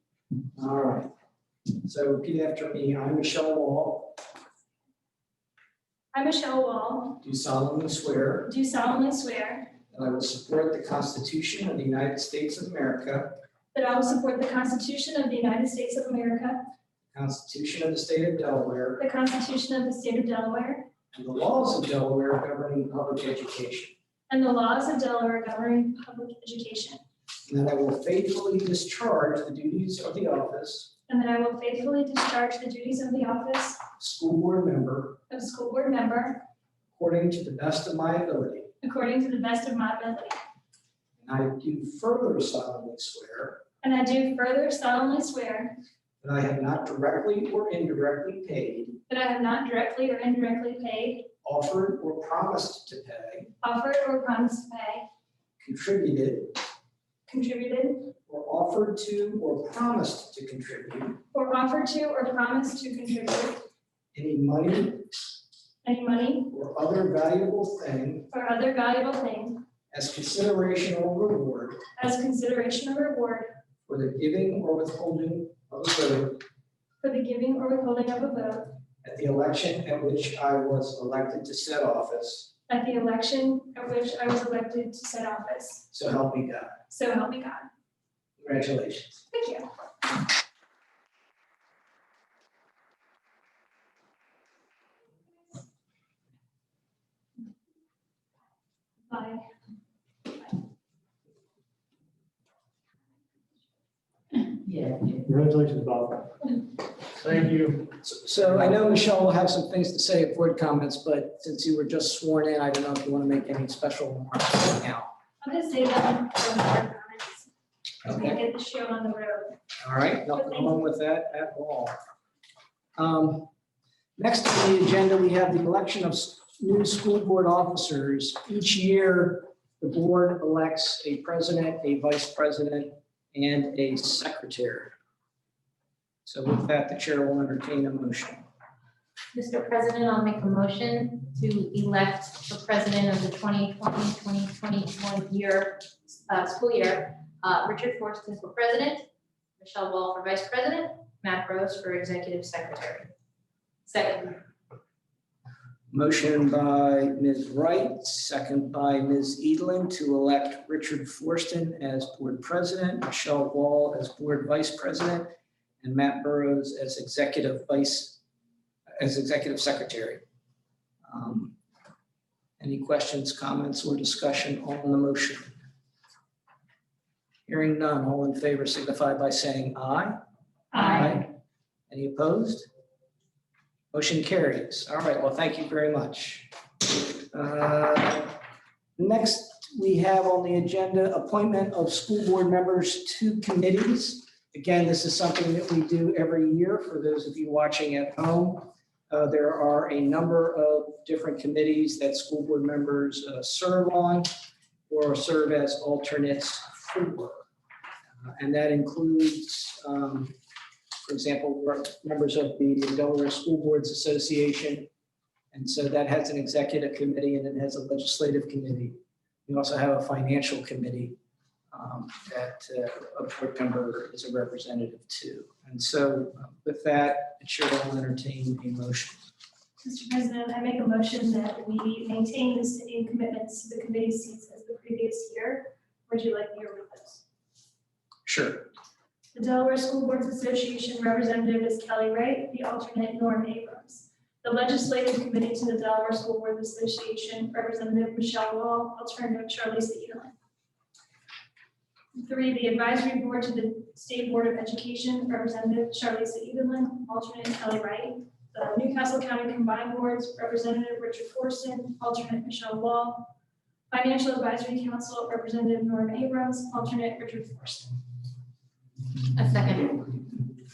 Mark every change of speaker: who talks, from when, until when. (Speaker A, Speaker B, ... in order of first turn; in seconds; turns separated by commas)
Speaker A: 0.5-1.1, Speaker A: 1.8-4.2, Speaker B: 6.1-7.2, Speaker A: 7.2-8.5, Speaker B: 8.4-9.7, Speaker A: 9.9-13.3, Speaker B: 13.7-16.6, Speaker A: 17.1-19.0, Speaker B: 19.0-20.9, Speaker A: 21.1-23.9, Speaker B: 24.3-27.0, Speaker A: 27.5-30.9, Speaker B: 31.1-33.8, Speaker A: 34.0-35.2, Speaker B: 35.3-36.4, Speaker A: 36.9-38.7, Speaker B: 38.8-40.3, Speaker A: 41.2-43.6, Speaker B: 43.8-45.8, Speaker A: 46.2-49.0, Speaker B: 49.1-51.3, Speaker A: 51.4-53.5, Speaker B: 53.6-55.0, Speaker A: 55.6-56.6, Speaker B: 57.3-58.1, Speaker A: 58.3-61.2, Speaker B: 61.3-63.6, Speaker A: 64.1-65.1, Speaker B: 65.8-66.5, Speaker A: 66.5-68.3, Speaker B: 68.3-69.6, Speaker A: 69.9-71.8, Speaker B: 72.0-73.5, Speaker A: 73.8-76.4, Speaker B: 77.0-78.7, Speaker A: 79.0-82.5, Speaker B: 82.7-85.8, Speaker A: 85.9-86.8, Speaker B: 86.9-87.7, Speaker A: 88.4-89.2, Speaker B: 89.3-89.6, Speaker B: 99.1-99.4, Speaker C: 105.0-106.6, Speaker C: 107.2-108.0, Speaker A: 108.0-115.1, Speaker B: 115.4-117.5, Speaker B: 118.0-119.6, Speaker A: 118.0-118.4, Speaker A: 119.8-121.9, Speaker B: 120.3-120.8, Speaker A: 123.0-123.5, Speaker A: 124.2-134.9, Speaker A: 136.2-138.4, Speaker D: 139.3-149.1, Speaker D: 149.6-153.1, Speaker D: 153.8-154.4, Speaker A: 155.9-165.3, Speaker A: 165.8-168.2, Speaker A: 169.0-170.2, Speaker A: 171.1-171.5, Speaker A: 172.6-175.5, Speaker A: 177.5-180.2, Speaker B: 180.7-181.2, Speaker A: 180.7-181.3, Speaker A: 181.9-182.7, Speaker A: 183.9-186.5, Speaker A: 187.3-188.3, Speaker A: 189.0-204.3, Speaker A: 204.9-207.4, Speaker A: 208.2-210.3, Speaker A: 211.1-214.9, Speaker A: 215.5-221.1, Speaker A: 221.7-229.3, Speaker B: 229.8-237.2, Speaker A: 238.2-238.7, Speaker B: 239.3-250.3, Speaker B: 252.1-263.3, Speaker B: 263.9-267.9, Speaker D: 269.3-270.0